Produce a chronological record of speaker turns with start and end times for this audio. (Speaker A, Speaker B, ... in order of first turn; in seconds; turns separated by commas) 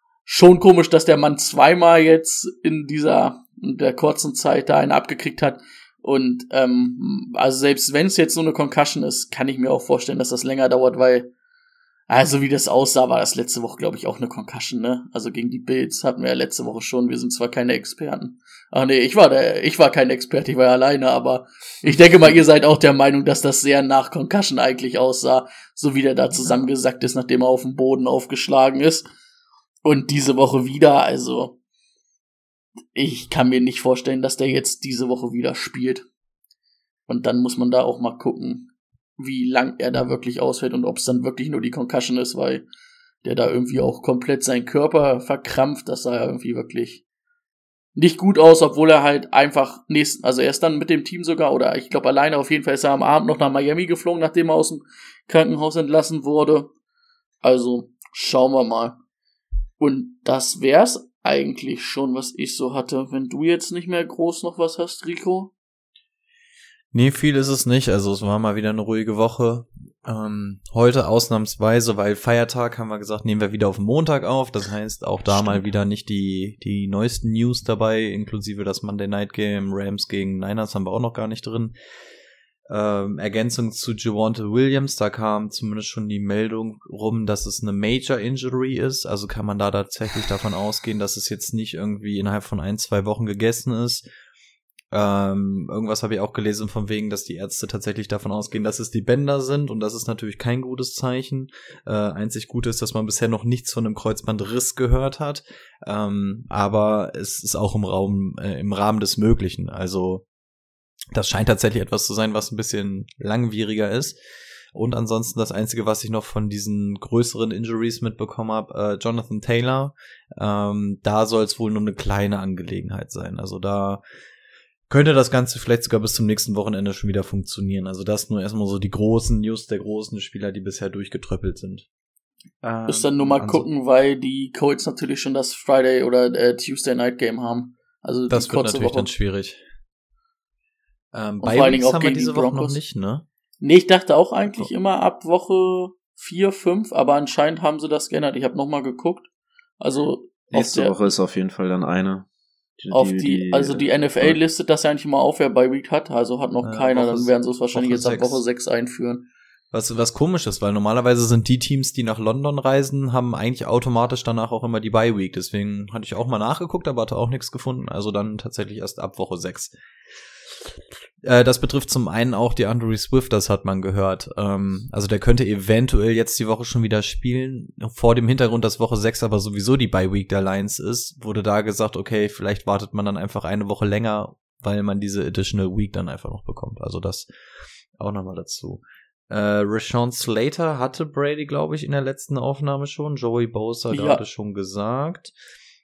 Speaker A: 0.3-11.3, Speaker A: 12.1-29.1, Speaker B: 26.4-26.7, Speaker A: 29.8-31.6, Speaker A: 32.9-36.1, Speaker A: 37.1-42.6, Speaker A: 43.2-47.0, Speaker A: 48.0-56.7, Speaker A: 57.4-59.0, Speaker A: 59.8-65.5, Speaker C: 66.9-81.8, Speaker B: 75.3-75.7, Speaker C: 82.7-94.0, Speaker C: 94.9-110.2, Speaker C: 111.1-114.2, Speaker C: 114.7-124.0, Speaker C: 124.9-131.9, Speaker C: 132.6-133.7, Speaker A: 132.9-139.1, Speaker C: 138.3-139.6, Speaker C: 141.1-143.2, Speaker A: 141.4-142.8, Speaker A: 143.6-149.3, Speaker A: 149.8-151.1, Speaker B: 150.5-154.4, Speaker A: 152.9-159.3, Speaker C: 156.6-158.4, Speaker C: 159.7-169.7, Speaker C: 171.2-187.3, Speaker C: 188.0-195.3, Speaker A: 193.9-194.2